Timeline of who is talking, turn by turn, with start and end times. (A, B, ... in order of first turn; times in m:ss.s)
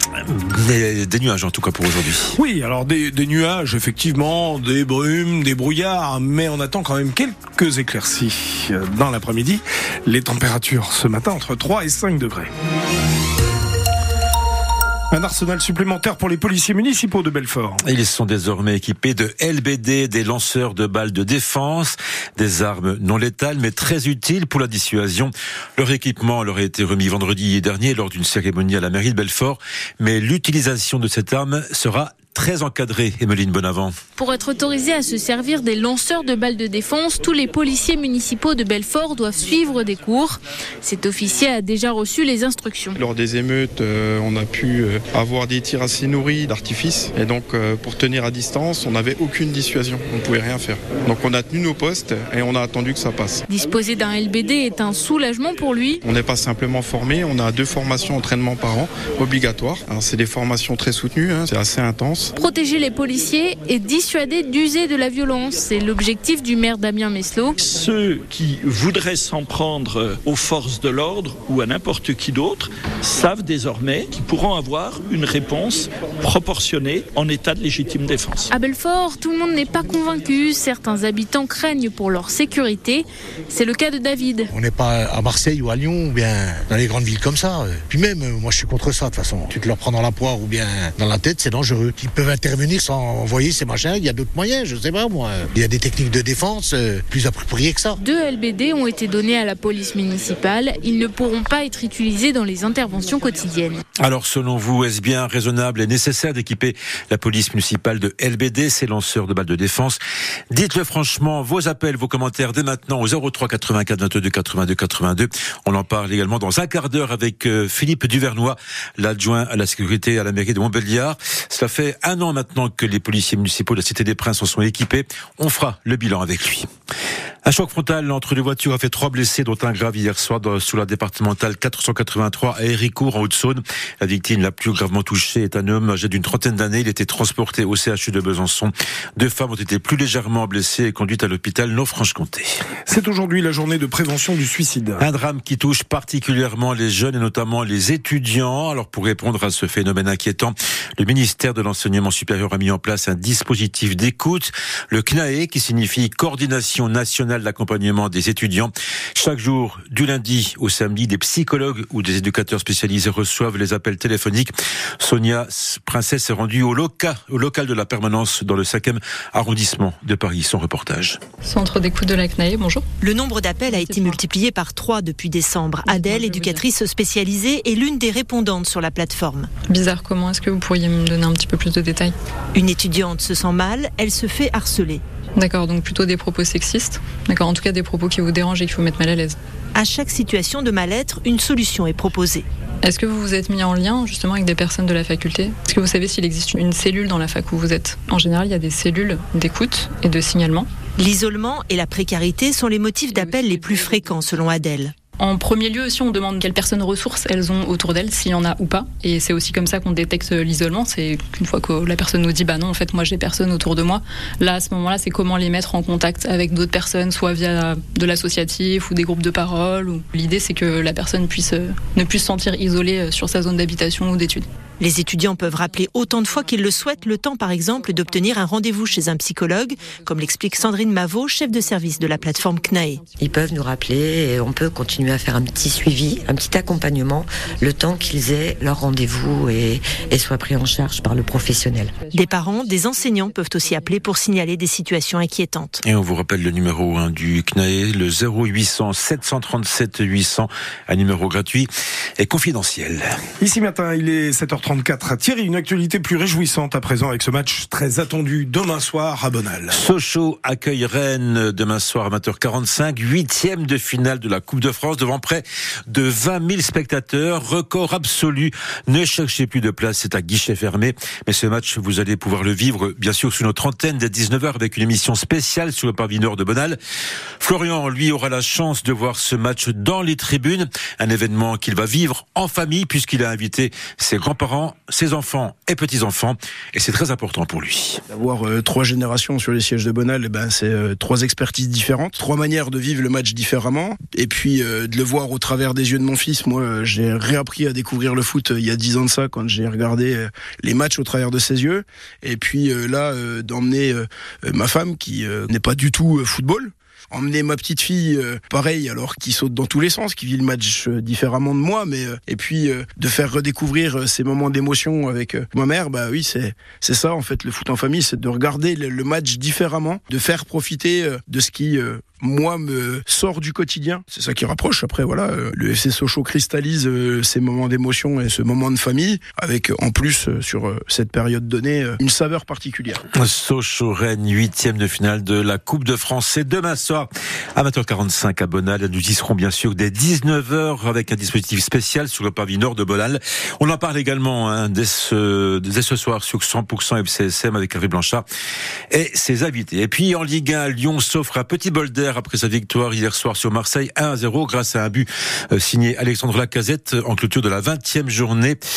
0:00.2-0:02.3 A
0:02.3-0:12.5 B
0:15.1-0:17.8 B
0:17.8-0:33.9 A
0:34.2-0:43.0 C
0:43.0-0:53.4 D
0:53.5-0:56.0 C
0:56.0-1:02.3 D
1:02.4-1:07.6 C
1:07.6-1:18.5 E
1:18.5-1:24.5 C
1:24.5-1:38.0 F
1:38.0-1:43.8 C
1:44.0-1:50.0 A
1:50.5-2:06.7 A
2:07.4-2:22.5 A
2:22.9-2:25.0 B
2:25.0-2:51.2 A
2:51.4-2:52.8 G
2:53.0-2:59.5 H
2:53.7-2:54.2 G
2:55.8-2:56.6 G
2:59.7-3:02.1 G
3:02.5-3:05.0 H
3:05.4-3:09.4 G
3:09.7-3:12.4 H
3:12.8-3:20.7 G
3:21.0-3:24.9 H
3:23.1-3:24.6 G
3:25.2-3:44.5 G
3:44.8-3:53.0 H
3:53.2-4:02.0 I
4:02.1-4:05.8 H
4:05.8-4:13.1 A
4:13.4-4:19.8 B
4:19.7-4:36.8 A
4:37.4-4:48.0 A
4:48.1-5:33.0 J
5:33.1-5:48.2 A
5:48.9-5:58.6 A